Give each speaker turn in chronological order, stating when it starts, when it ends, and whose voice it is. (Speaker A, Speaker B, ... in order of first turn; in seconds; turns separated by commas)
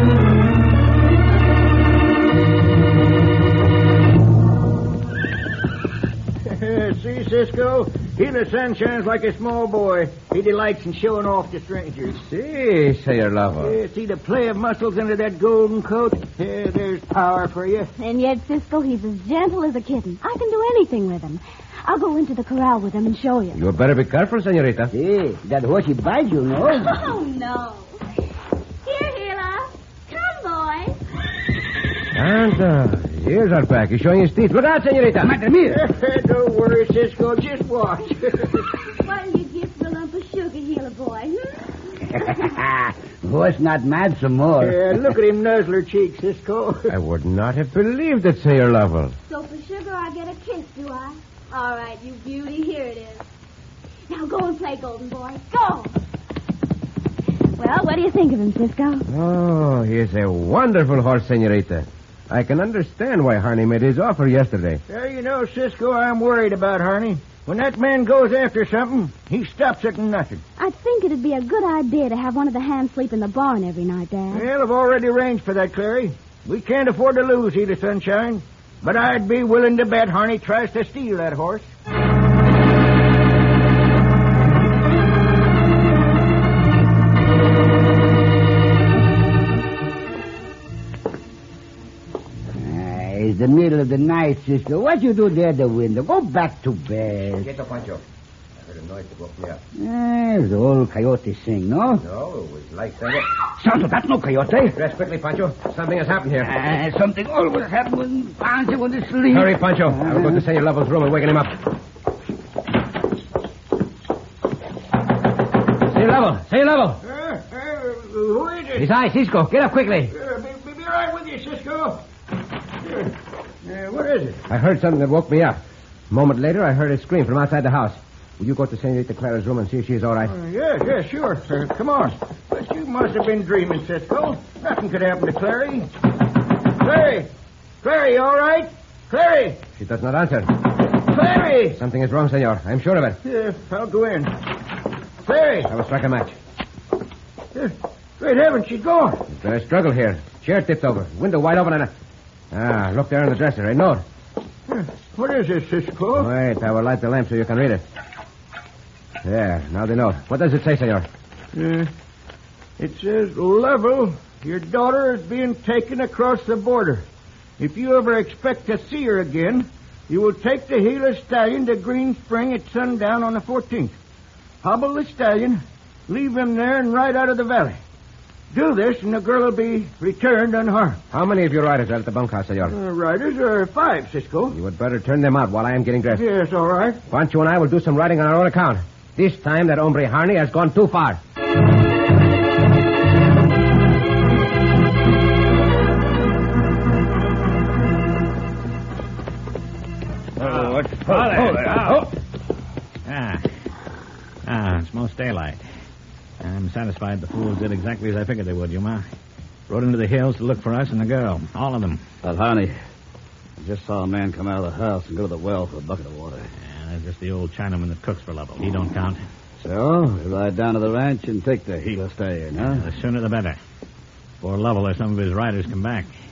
Speaker A: 6.5-12.2, Speaker B: 12.1-13.8, Speaker A: 13.6-17.9, Speaker C: 18.0-23.6, Speaker B: 23.6-24.9, Speaker D: 24.9-26.9, Speaker C: 26.7-28.0, Speaker C: 28.8-31.0, Speaker B: 32.1-35.4, Speaker D: 35.2-35.8, Speaker A: 35.7-38.7, Speaker C: 38.8-42.3, Speaker D: 42.1-45.0, Speaker A: 44.6-46.9, Speaker B: 46.9-49.1, Speaker C: 49.3-53.2, Speaker C: 54.1-56.0, Speaker C: 57.5-59.1, Speaker B: 59.1-64.8, Speaker A: 64.9-70.4, Speaker C: 70.6-74.5, Speaker A: 74.3-81.7, Speaker D: 92.5-97.5, Speaker B: 97.4-98.0, Speaker B: 98.6-99.6, Speaker D: 99.8-102.0, Speaker B: 102.0-103.3, Speaker D: 103.5-104.8, Speaker B: 104.7-106.5, Speaker D: 106.4-110.4, Speaker B: 109.3-111.6, Speaker B: 115.8-117.0, Speaker A: 117.0-118.9, Speaker B: 118.8-120.1, Speaker A: 120.1-122.0, Speaker A: 122.8-123.1, Speaker A: 123.6-124.4, Speaker B: 124.5-125.6, Speaker B: 126.1-130.3, Speaker A: 130.2-135.9, Speaker A: 136.7-137.3, Speaker A: 137.8-139.6, Speaker B: 139.8-140.6, Speaker A: 141.1-141.8, Speaker B: 141.7-143.2, Speaker A: 143.2-144.4, Speaker A: 145.2-145.7, Speaker B: 145.7-146.3, Speaker A: 147.5-149.2, Speaker B: 149.3-151.9, Speaker B: 152.5-154.0, Speaker A: 154.7-156.3, Speaker B: 156.1-157.8, Speaker B: 159.2-161.1, Speaker A: 161.5-161.9, Speaker A: 162.8-167.0, Speaker A: 167.6-173.9, Speaker A: 174.6-177.8, Speaker A: 178.5-181.0, Speaker B: 181.1-182.8, Speaker A: 182.7-184.6, Speaker B: 184.5-186.3, Speaker A: 186.1-187.0, Speaker B: 187.1-191.2, Speaker E: 200.4-202.0, Speaker F: 200.4-202.1, Speaker F: 203.1-203.5, Speaker F: 204.4-205.6, Speaker F: 206.4-209.1, Speaker F: 209.7-212.1, Speaker E: 212.2-212.8, Speaker E: 213.6-216.5, Speaker F: 216.6-219.2, Speaker E: 219.6-222.9, Speaker F: 222.6-223.6, Speaker F: 224.4-226.1